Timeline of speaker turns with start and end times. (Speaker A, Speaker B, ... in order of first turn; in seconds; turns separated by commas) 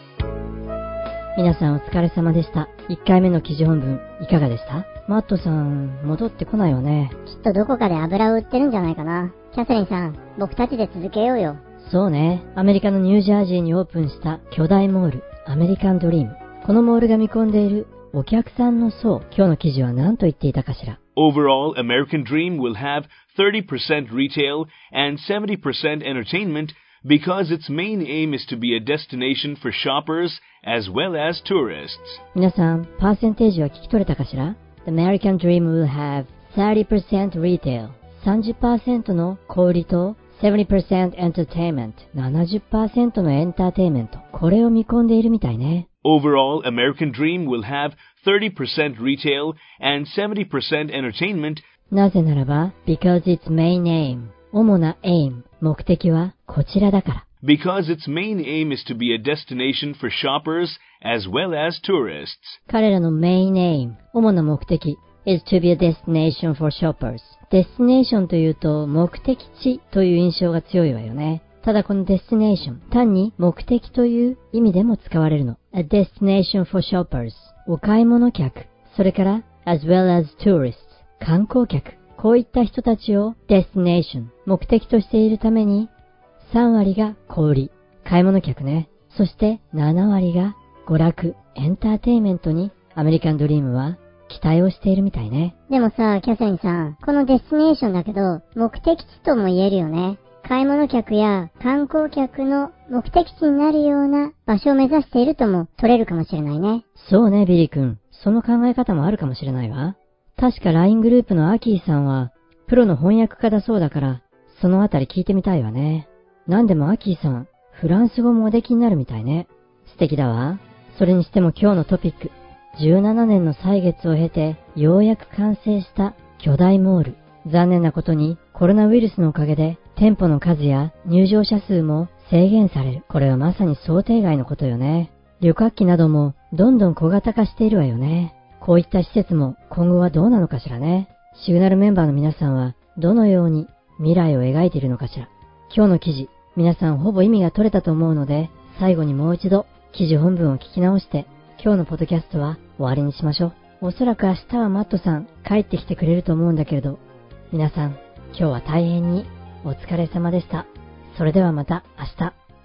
Speaker A: 1.3-7.1, Speaker B: 7.2-11.6, Speaker A: 11.8-21.0, Speaker C: 21.1-32.2, Speaker A: 32.3-45.9, Speaker C: 46.0-51.6, Speaker A: 51.9-57.2, Speaker C: 57.4-62.6, Speaker A: 62.7-95.5, Speaker B: 95.7-106.8, Speaker A: 107.0-162.3